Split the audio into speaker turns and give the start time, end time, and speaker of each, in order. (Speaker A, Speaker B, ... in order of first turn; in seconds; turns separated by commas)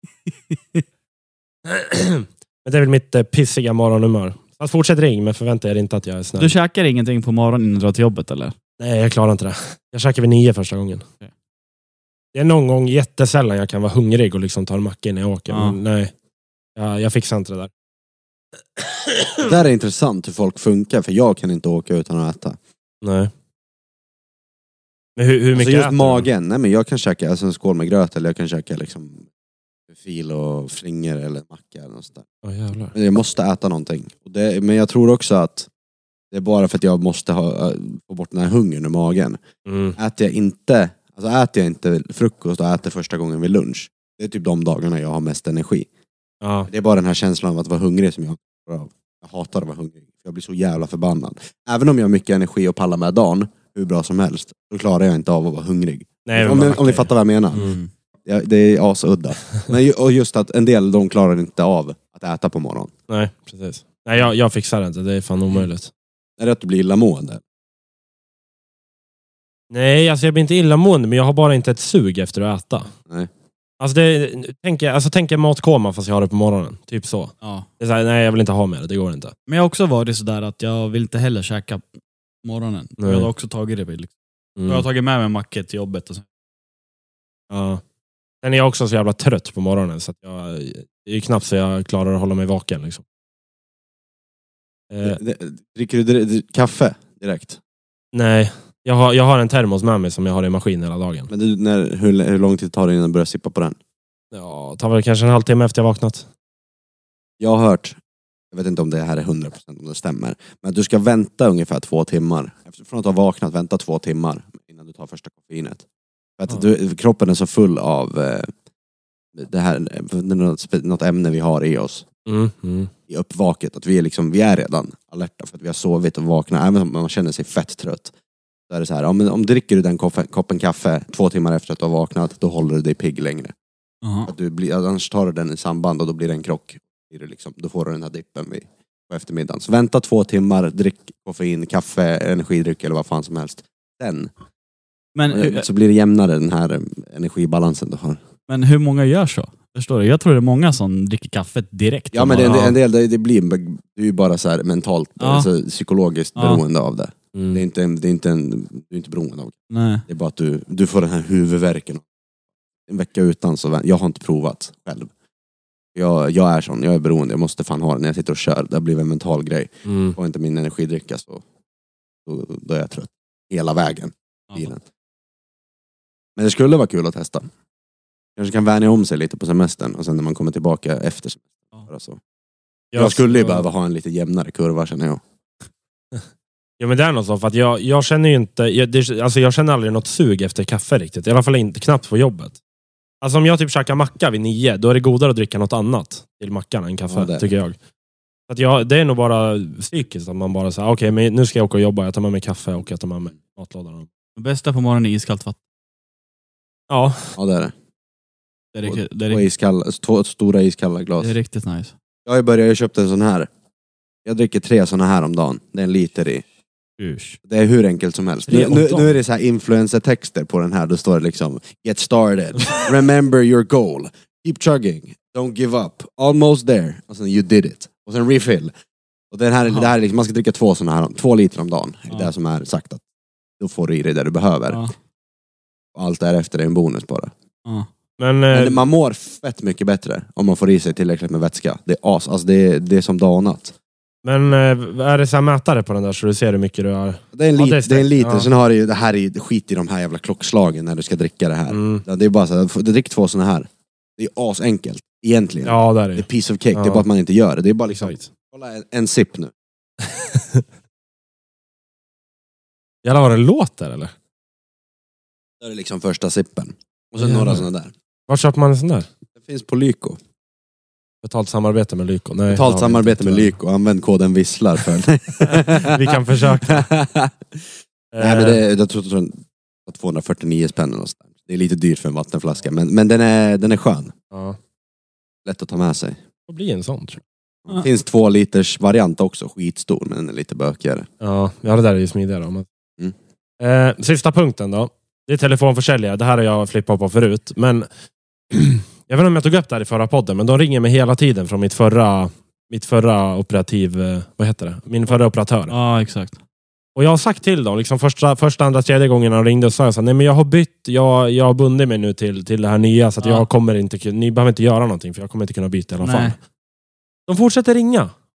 Speaker A: 0.5-0.8, Speaker B: 1.7-6.5, Speaker A: 6.4-8.6, Speaker B: 8.8-11.1, Speaker B: 12.3-16.1, Speaker A: 15.5-15.8, Speaker B: 16.8-17.7, Speaker B: 18.8-19.5, Speaker C: 19.4-22.6, Speaker B: 23.0-23.3, Speaker B: 25.2-26.3, Speaker C: 25.5-29.3, Speaker C: 29.9-32.3, Speaker B: 32.4-32.9, Speaker C: 32.9-35.7, Speaker C: 36.3-39.4, Speaker B: 39.7-40.0, Speaker C: 40.0-45.9, Speaker B: 46.4-46.7, Speaker C: 46.7-57.7, Speaker B: 56.3-57.8, Speaker A: 57.5-57.9, Speaker C: 58.3-62.9, Speaker B: 63.1-65.9, Speaker C: 66.4-67.4, Speaker B: 69.7-72.9, Speaker B: 73.8-79.3, Speaker A: 77.4-77.7, Speaker A: 79.5-81.9, Speaker A: 82.4-84.1, Speaker B: 83.0-83.3, Speaker B: 84.6-84.9, Speaker A: 84.7-86.2, Speaker B: 87.5-87.8, Speaker B: 88.4-93.0, Speaker B: 94.9-95.2, Speaker C: 95.0-97.6, Speaker B: 98.1-101.3, Speaker C: 101.3-103.8, Speaker B: 104.3-106.3, Speaker C: 107.4-108.0, Speaker C: 108.5-115.8, Speaker C: 116.4-118.5, Speaker C: 119.3-122.0, Speaker B: 122.3-122.9, Speaker C: 123.1-128.1, Speaker C: 128.7-133.5, Speaker A: 134.0-134.3, Speaker C: 134.3-144.3, Speaker A: 145.2-145.7, Speaker C: 145.3-148.2, Speaker A: 148.5-152.7, Speaker C: 152.1-159.6, Speaker B: 152.4-152.8, Speaker A: 155.2-155.5, Speaker A: 156.4-156.6, Speaker B: 157.3-157.6, Speaker A: 159.7-160.0, Speaker C: 160.1-162.0, Speaker C: 162.9-165.1, Speaker C: 165.9-171.4, Speaker B: 169.8-170.2, Speaker C: 172.3-174.8, Speaker C: 176.4-177.5, Speaker C: 178.4-182.2, Speaker B: 182.9-183.6, Speaker C: 182.9-185.2, Speaker B: 186.8-192.6, Speaker B: 193.2-197.8, Speaker C: 197.1-197.5, Speaker B: 198.5-204.1, Speaker A: 204.4-205.6, Speaker B: 206.9-207.3, Speaker C: 207.4-207.7, Speaker A: 208.8-209.5, Speaker C: 208.8-211.3, Speaker A: 211.2-211.9, Speaker C: 212.3-213.5, Speaker C: 214.2-216.4, Speaker A: 217.0-217.4, Speaker C: 217.4-228.7, Speaker B: 218.5-219.1, Speaker C: 229.3-233.0, Speaker C: 233.6-234.8, Speaker C: 235.9-237.3, Speaker B: 238.2-238.9, Speaker C: 238.5-243.8, Speaker B: 244.2-248.5, Speaker C: 247.3-259.5, Speaker B: 251.7-252.0, Speaker B: 255.7-257.1, Speaker B: 257.9-258.3, Speaker B: 260.1-260.6, Speaker B: 263.0-264.1, Speaker C: 265.6-267.9, Speaker B: 267.2-267.6, Speaker B: 268.3-269.1, Speaker C: 269.4-270.2, Speaker B: 271.2-273.5, Speaker C: 272.5-277.6, Speaker B: 275.4-276.9, Speaker B: 278.1-278.6, Speaker C: 278.2-284.1, Speaker B: 284.3-284.6, Speaker C: 285.4-286.2, Speaker B: 286.5-287.2, Speaker C: 287.7-291.1, Speaker B: 291.2-292.7, Speaker B: 293.6-297.9, Speaker B: 298.5-305.7, Speaker A: 305.7-306.4, Speaker B: 307.0-316.4, Speaker A: 316.0-316.4, Speaker B: 317.3-318.1